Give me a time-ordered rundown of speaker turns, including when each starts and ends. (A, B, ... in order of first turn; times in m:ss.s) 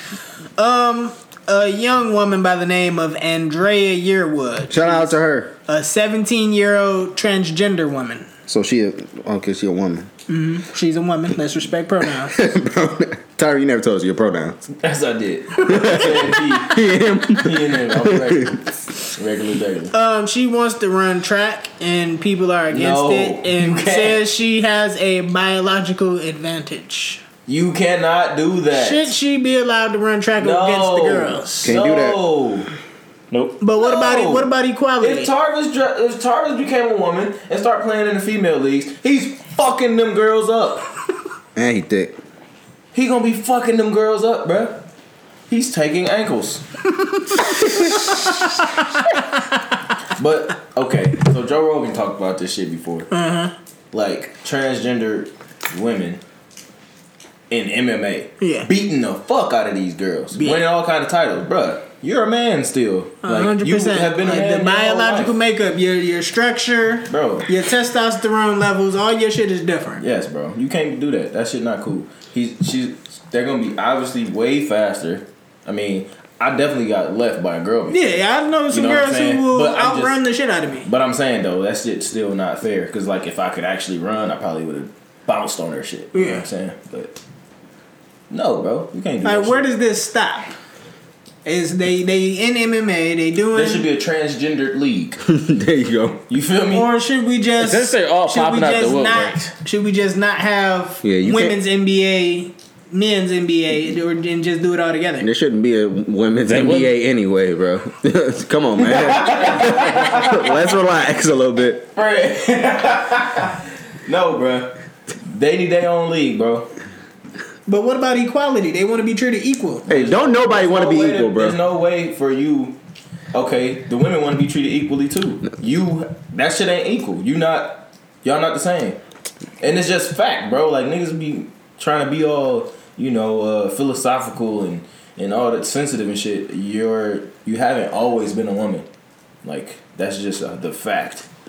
0:00.6-0:05.2 A
0:04.7-0:05.5 B
0:05.7-0:08.3 A
0:08.5-0:10.1 B
0:10.3-0:12.4 A
0:12.2-0:14.6 B
0:14.8-0:16.8 C
0:15.7-0:18.6 B
0:17.4-0:18.6 C
0:19.2-0:19.9 C
0:19.9-0:27.2 A
0:22.7-0:24.2 C
0:27.5-0:29.1 C
0:28.7-0:31.7 A
0:30.4-0:32.7 C
0:31.6-0:32.2 B
0:33.3-0:33.6 D
0:33.6-0:35.3 A
0:33.8-0:40.9 C
0:41.6-0:42.2 B
0:42.9-0:44.8 C
0:45.5-0:46.6 C
0:47.7-0:48.3 C
0:50.2-0:53.1 C
0:53.1-0:53.5 A
0:53.9-0:56.2 C
0:57.5-1:05.4 C
0:58.4-0:58.7 A
1:00.3-1:00.7 A
1:03.2-1:10.0 A
1:07.1-1:07.5 C
1:10.0-1:20.2 C
1:17.9-1:20.9 A
1:20.8-1:27.2 C
1:26.1-1:26.4 A
1:28.3-1:29.7 C
1:29.2-1:30.6 A
1:31.4-1:33.9 A
1:33.5-1:35.2 C
1:35.3-1:36.2 B
1:36.3-1:36.9 C
1:36.7-1:45.3 A
1:37.6-1:39.5 D
1:41.0-1:41.6 B
1:45.2-1:51.9 B
1:46.5-1:46.9 D
1:48.8-1:50.6 C
1:52.0-1:54.7 C
1:55.3-1:56.7 C
1:57.7-1:59.9 A
1:59.9-2:02.8 C
1:59.9-2:01.6 B
2:03.3-2:09.0 C
2:09.6-2:18.9 C
2:19.4-2:21.3 C